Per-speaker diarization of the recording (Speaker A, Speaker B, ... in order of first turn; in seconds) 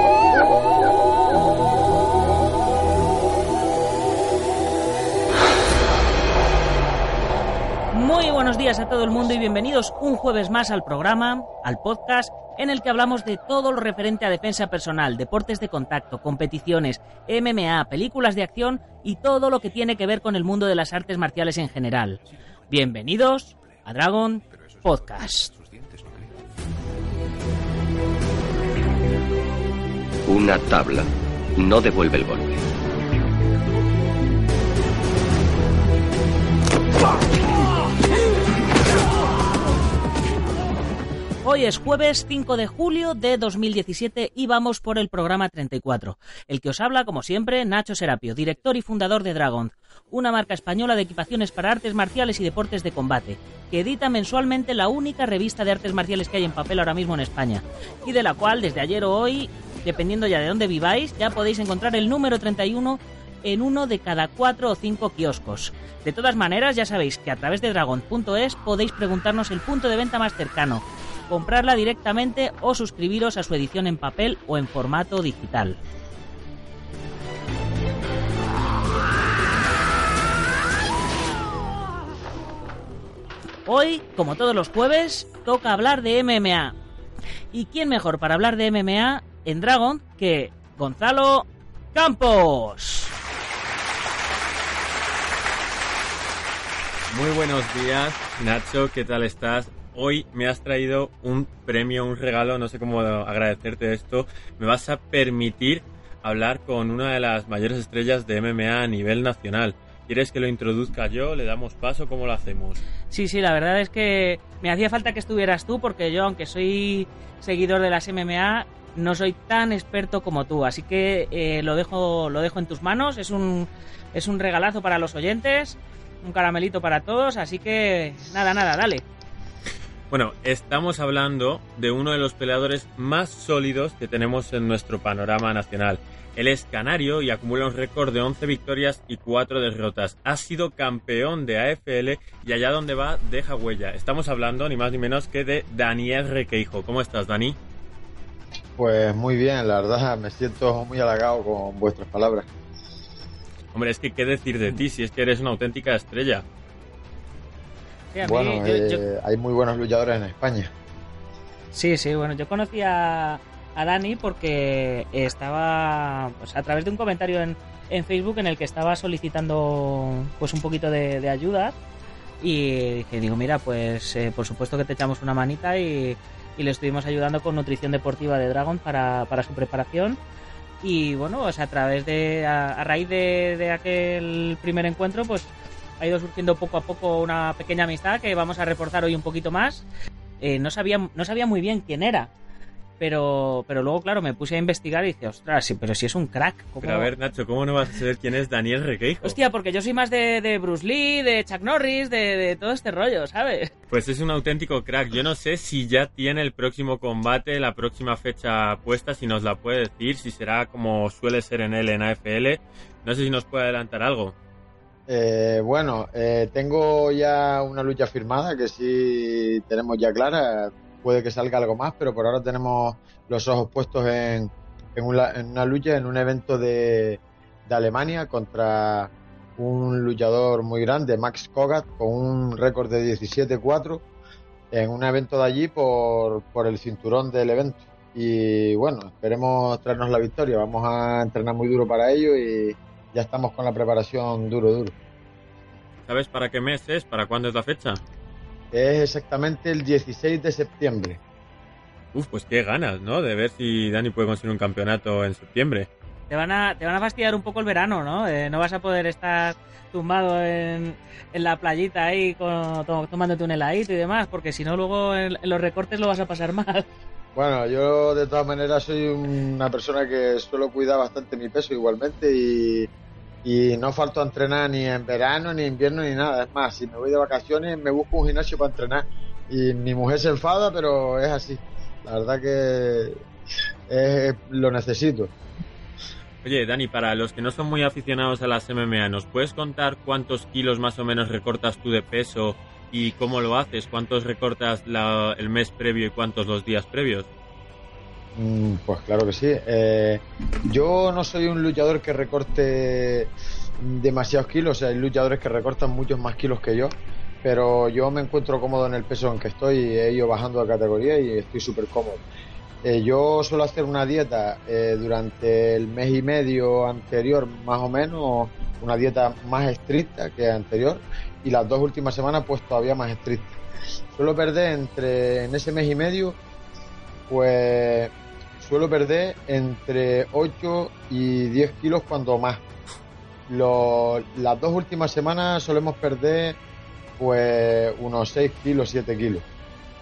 Speaker A: 7.9-25.6, 41.4-75.8, 83.7-86.8, 87.5-93.1, 113.1-129.0, 158.1-159.0, 161.7-171.8, 172.4-180.2, 180.8-189.8, 190.4-192.3, 193.0-197.1, 199.2-203.7, 256.3-266.9
Speaker B: 30.3-32.6
Speaker C: 97.1-112.8, 130.1-147.6, 153.7-156.4, 196.8-199.4, 203.9-214.3, 246.1-248.0, 252.1-255.9, 286.4-297.3
Speaker D: 148.8-152.5, 158.2-160.7, 215.1-234.0, 234.7-244.9, 248.7-251.2, 267.3-272.9, 273.4-283.2, 283.9-285.3, 298.3-312.2, 312.8-323.5, 324.1-326.4, 327.3-332.6, 333.5-336.6, 337.2-339.4